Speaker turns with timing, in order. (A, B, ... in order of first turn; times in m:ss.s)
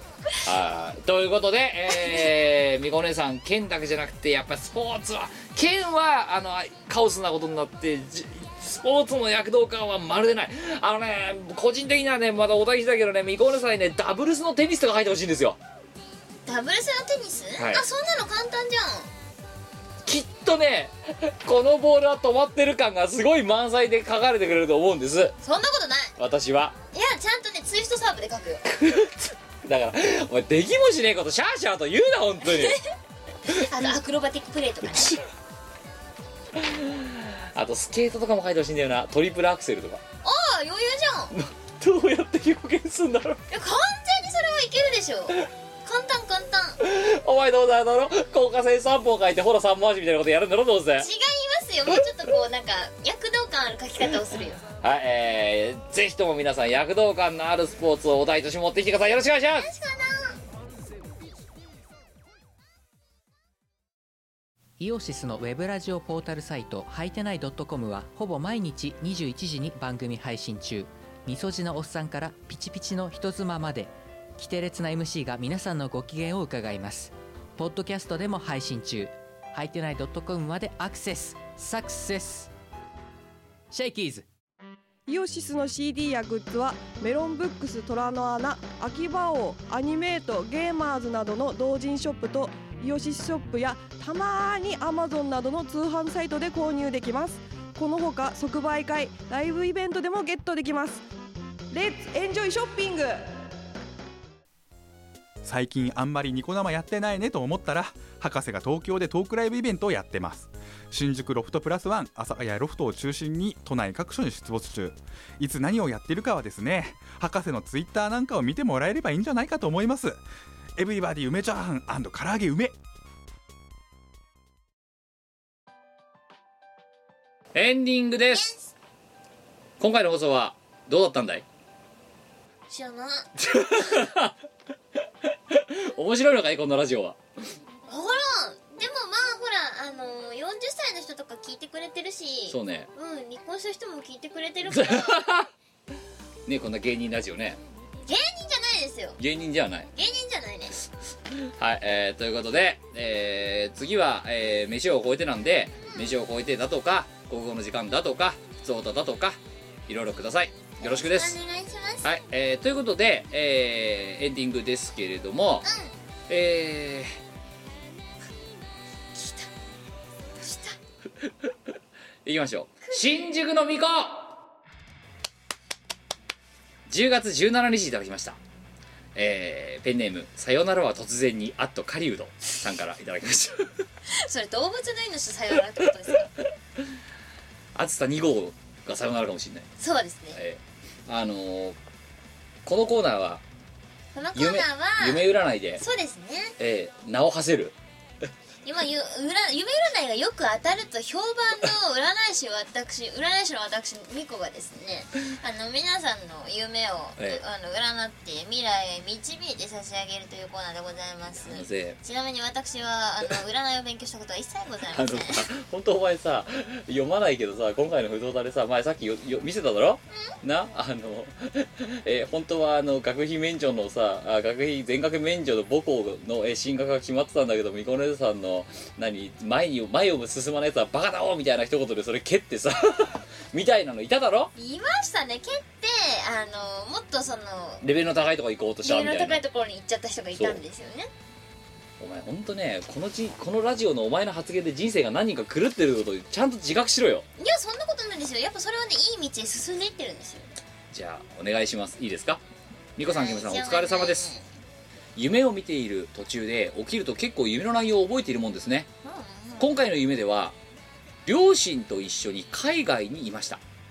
0:00.4-0:15.6 A
0:01.9-0:02.3 B
0:16.4-0:19.1 B
0:17.6-0:17.8 A
0:20.0-0:25.3 A
0:25.4-0:26.1 B
0:26.2-0:26.7 A
0:26.9-0:28.6 B
0:28.7-0:32.8 A
0:32.4-0:32.8 B
0:33.5-0:35.2 B
0:36.6-0:40.0 A
0:40.2-0:41.3 B
0:41.3-0:43.4 A
0:43.5-0:46.8 B
0:46.8-0:51.1 A
0:51.0-0:54.6 B
0:54.8-0:59.7 A
0:59.5-1:00.4 B
1:04.8-1:22.5 C
1:23.7-1:24.3 C
1:25.1-1:41.0 D
1:41.7-1:43.3 D
1:45.4-2:00.2 E
2:00.8-2:02.8 E
2:07.5-2:08.5 A
2:08.3-2:08.7 B
2:09.8-2:11.4 A
2:12.7-2:14.0 B
2:13.4-2:14.3 A
2:15.5-2:17.2 A
2:17.9-2:25.2 B
2:22.5-2:22.9 A
2:24.7-2:25.5 A
2:26.4-2:27.6 A
2:28.0-2:29.2 B
2:29.2-2:29.9 A
2:29.9-2:30.7 B
2:31.5-2:41.4 A
2:35.8-2:36.1 B
2:40.8-2:42.0 B
2:42.0-2:45.7 A
2:45.6-2:45.9 B
2:46.3-2:47.1 A
2:49.1-2:49.5 B
2:50.4-2:50.8 B
2:52.2-2:54.4 A
2:52.8-2:53.1 B
2:56.9-2:58.4 A
2:59.1-3:03.7 A
3:04.1-3:06.3 B
3:07.7-3:09.7 A
3:09.8-3:10.4 B
3:10.3-3:11.8 A
3:12.6-3:13.4 A
3:14.1-3:15.3 B
3:14.3-3:15.8 A
3:15.8-3:16.5 B
3:16.6-3:17.7 A
3:18.6-3:35.4 B
3:31.4-3:32.0 A
3:34.9-3:54.5 A
3:54.6-3:57.8 B
3:57.8-3:59.4 A
3:58.8-4:01.1 B
4:02.0-4:07.2 A
4:07.4-4:10.5 B
4:10.9-4:12.4 A
4:13.0-4:14.3 A
4:13.0-4:14.4 B
4:15.2-4:18.9 A
4:19.0-4:19.7 B
4:19.6-4:20.5 A
4:21.2-4:23.6 A